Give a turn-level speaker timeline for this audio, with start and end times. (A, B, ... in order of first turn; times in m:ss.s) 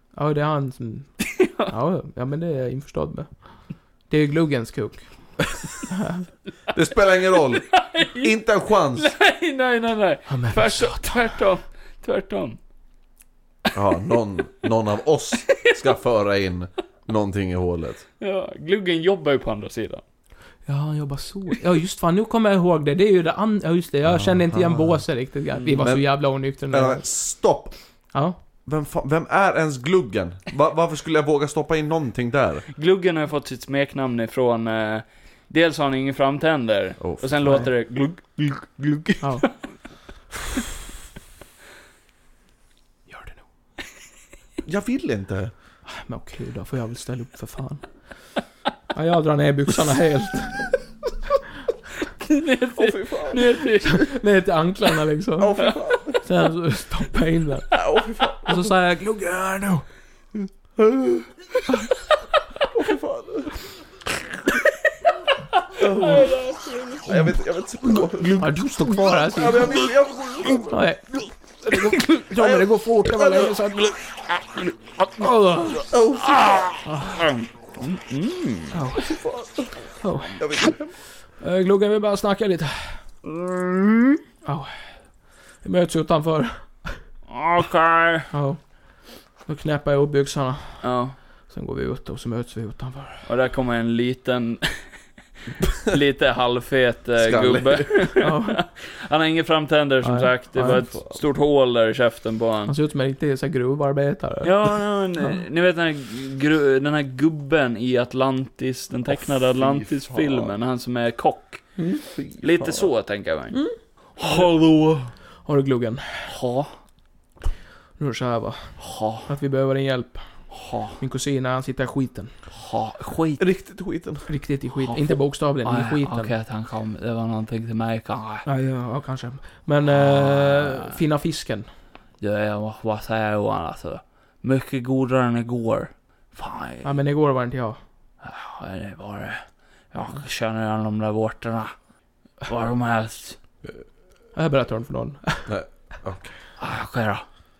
0:00.2-0:05.3 A
0:01.2-0:01.7 B
0:05.9-0:06.2 A
0:06.7-0:09.1 C
0:07.4-0:12.6 B
0:10.3-0:11.2 A
0:13.7-0:18.0 C
0:15.4-0:15.9 B
0:18.2-0:20.0 B
0:20.6-0:27.1 A
0:24.1-0:25.1 C
0:25.5-0:25.9 B
0:25.8-0:27.7 C
0:28.6-0:32.6 C
0:32.7-0:39.7 B
0:37.0-0:37.3 C
0:37.4-0:37.7 A
0:43.1-0:43.4 A
0:44.6-0:45.5 C
0:45.9-0:47.8 A
0:48.9-0:50.6 A
0:52.2-0:54.1 B
0:52.7-0:53.5 C
0:53.9-0:55.6 A
0:55.4-0:56.2 C
0:56.2-0:57.8 A
0:57.7-0:58.6 C
0:58.4-0:59.8 A
1:02.7-1:03.6 C
1:05.7-1:07.1 B
1:05.8-1:06.3 C
1:07.0-1:10.8 C
1:08.0-1:09.8 A
1:10.7-1:11.0 A
1:11.6-1:13.6 C
1:11.6-1:13.9 A
1:15.2-1:15.9 A
1:15.8-1:16.7 C
1:16.3-1:18.8 B
1:16.8-1:17.2 A
1:18.7-1:19.1 A
1:19.0-1:19.7 C
1:20.0-1:20.4 A
1:20.4-1:20.9 C
1:21.4-1:23.0 A
1:23.4-1:24.1 B
1:24.4-1:24.7 A
1:25.6-1:27.0 A
1:27.3-1:28.3 B
1:28.3-1:28.8 A
1:29.4-1:30.8 A
1:30.8-1:31.2 B
1:31.5-1:33.2 A
1:33.2-1:34.8 B
1:35.7-1:42.7 B
1:37.2-1:37.9 C
1:38.2-1:38.6 A
1:40.0-1:41.0 A
1:42.7-1:44.6 A
1:44.4-1:51.8 B
1:49.2-1:50.5 C
1:51.8-1:52.0 A
1:52.2-1:52.9 C
1:52.4-1:53.6 B
1:54.2-1:55.1 B
1:55.4-1:56.2 A
1:56.2-1:56.8 B
1:58.0-2:00.4 A
1:58.8-1:59.3 B
2:00.5-2:01.0 B
2:01.0-2:02.3 A
2:02.5-2:03.4 B
2:03.4-2:04.3 C
2:04.3-2:06.3 A
2:04.8-2:08.4 B
2:08.4-2:11.7 A
2:09.9-2:11.0 B
2:12.2-2:17.0 B
2:16.8-2:17.8 A
2:18.2-2:21.8 B
2:22.4-2:23.4 B
2:24.3-2:25.5 A
2:25.5-2:26.3 C
2:26.6-2:27.2 B